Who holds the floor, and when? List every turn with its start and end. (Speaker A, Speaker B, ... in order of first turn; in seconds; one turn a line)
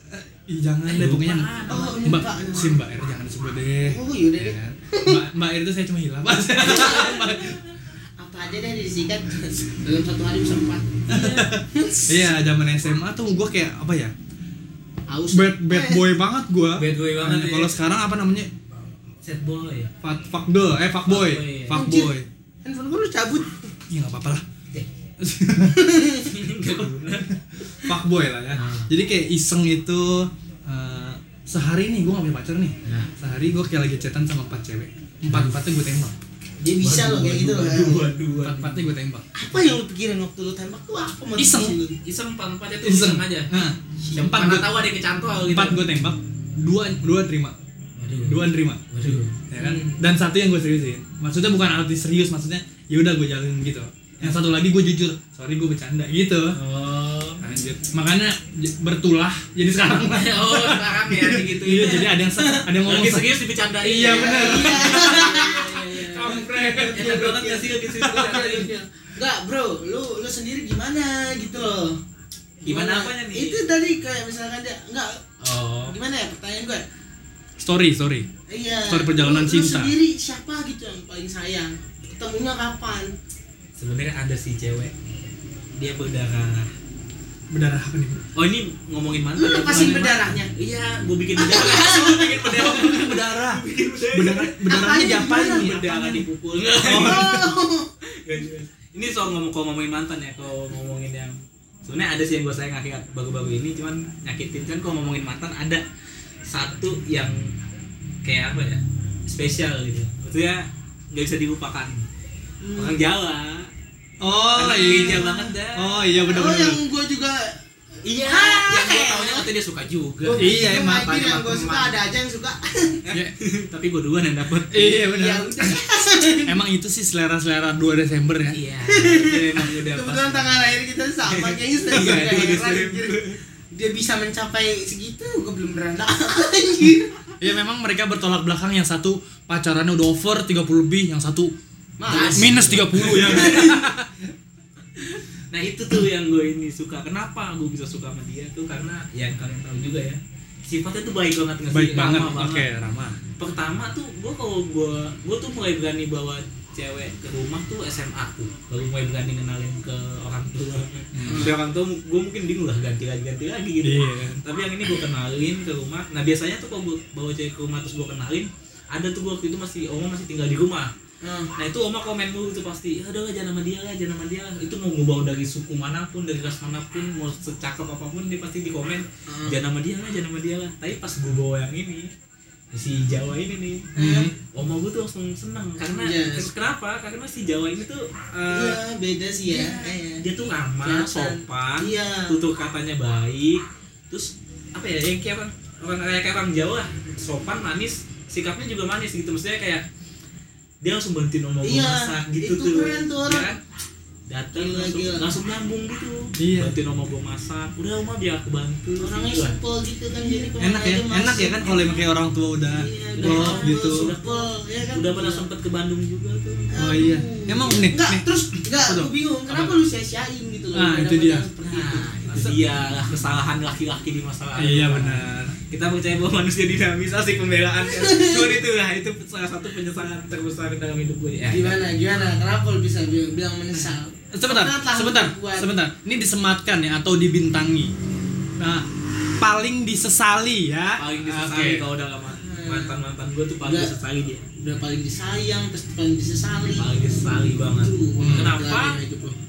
Speaker A: 0.1-7.6
Speaker B: 0.8-2.1
Speaker C: 1.7-2.8
Speaker C: 3.9-5.2
Speaker C: 6.6-7.4
Speaker B: 6.6-7.3
Speaker C: 8.2-12.3
Speaker A: 11.1-14.1
Speaker B: 11.1-11.5
Speaker C: 15.1-16.1
Speaker A: 15.3-18.5
Speaker B: 16.8-17.8
Speaker B: 19.2-19.9
Speaker A: 20.0-22.3
Speaker B: 21.0-21.8
Speaker C: 21.7-23.6
Speaker A: 23.9-24.4
Speaker A: 25.2-25.8
Speaker C: 25.7-26.3
Speaker B: 26.2-27.9
Speaker A: 27.8-36.1
Speaker B: 28.5-28.9
Speaker B: 32.8-33.1
Speaker B: 35.3-35.6
Speaker C: 36.6-38.1
Speaker B: 36.8-38.9
Speaker A: 38.4-39.2
Speaker C: 39.3-42.0
Speaker A: 41.4-41.8
Speaker B: 42.0-43.6
Speaker A: 42.8-44.7
Speaker B: 44.1-45.8
Speaker A: 45.5-47.5
Speaker B: 48.0-49.4
Speaker A: 48.2-48.8
Speaker A: 49.5-56.6
Speaker C: 49.5-50.0
Speaker B: 56.5-57.4
Speaker A: 57.4-67.2
Speaker B: 60.0-62.2
Speaker C: 62.4-62.6
Speaker B: 62.8-66.3
Speaker C: 64.0-72.0
Speaker B: 66.9-68.7
Speaker A: 68.0-68.4
Speaker C: 72.6-75.2
Speaker B: 72.6-73.6
Speaker B: 75.4-76.0
Speaker C: 75.8-76.8
Speaker A: 77.6-78.3
Speaker C: 78.5-83.1
Speaker A: 78.9-79.9
Speaker B: 83.8-84.9
Speaker B: 85.8-86.7
Speaker A: 87.5-88.2
Speaker B: 88.3-97.4
Speaker C: 89.4-90.5
Speaker A: 89.7-90.2
Speaker C: 91.4-92.7
Speaker A: 92.5-96.2
Speaker C: 94.7-95.7
Speaker A: 96.8-97.4
Speaker C: 96.9-97.9
Speaker B: 98.1-105.8
Speaker B: 106.5-107.5
Speaker B: 108.2-112.0
Speaker C: 112.6-113.0
Speaker B: 112.7-113.7
Speaker A: 114.2-116.8
Speaker C: 114.3-115.4
Speaker B: 114.5-116.1
Speaker C: 116.2-117.5
Speaker B: 118.0-122.0
Speaker C: 118.1-119.5
Speaker C: 120.2-123.0
Speaker A: 120.3-121.1
Speaker B: 123.0-125.0
Speaker A: 124.7-125.8
Speaker C: 124.9-126.5
Speaker A: 126.5-128.6
Speaker B: 128.5-130.6
Speaker C: 128.8-137.2
Speaker B: 131.3-133.4
Speaker A: 137.4-141.5
Speaker C: 142.0-143.9
Speaker B: 142.1-143.8
Speaker A: 142.2-144.1
Speaker B: 145.0-152.7
Speaker A: 151.7-153.2
Speaker B: 153.4-170.9
Speaker A: 161.1-161.5
Speaker C: 161.2-161.6
Speaker A: 163.8-164.4
Speaker C: 171.2-171.5
Speaker B: 171.5-182.1
Speaker C: 179.3-179.6
Speaker B: 182.7-183.9
Speaker C: 183.9-184.3
Speaker A: 183.9-184.3
Speaker B: 184.4-188.8
Speaker C: 185.9-186.5
Speaker C: 188.5-190.2
Speaker B: 189.5-199.8
Speaker C: 190.8-192.3
Speaker B: 200.8-203.6
Speaker C: 201.6-203.5
Speaker B: 204.3-209.6
Speaker C: 204.5-205.3
Speaker A: 206.4-206.8
Speaker C: 209.0-212.0
Speaker B: 210.2-210.5
Speaker A: 210.6-214.1
Speaker C: 212.7-215.4
Speaker B: 213.1-216.7
Speaker C: 216.7-222.3
Speaker A: 216.8-218.2
Speaker A: 218.8-219.1
Speaker B: 219.5-219.8
Speaker A: 220.7-221.5
Speaker B: 221.7-232.2
Speaker A: 224.6-225.5
Speaker C: 227.9-228.6
Speaker C: 231.5-235.7
Speaker A: 233.8-237.9
Speaker A: 238.6-238.8
Speaker A: 239.4-241.8
Speaker B: 241.0-244.5
Speaker C: 242.3-242.9
Speaker C: 243.6-243.9
Speaker C: 244.6-246.9
Speaker B: 246.7-249.0
Speaker C: 247.8-249.4
Speaker A: 248.2-248.6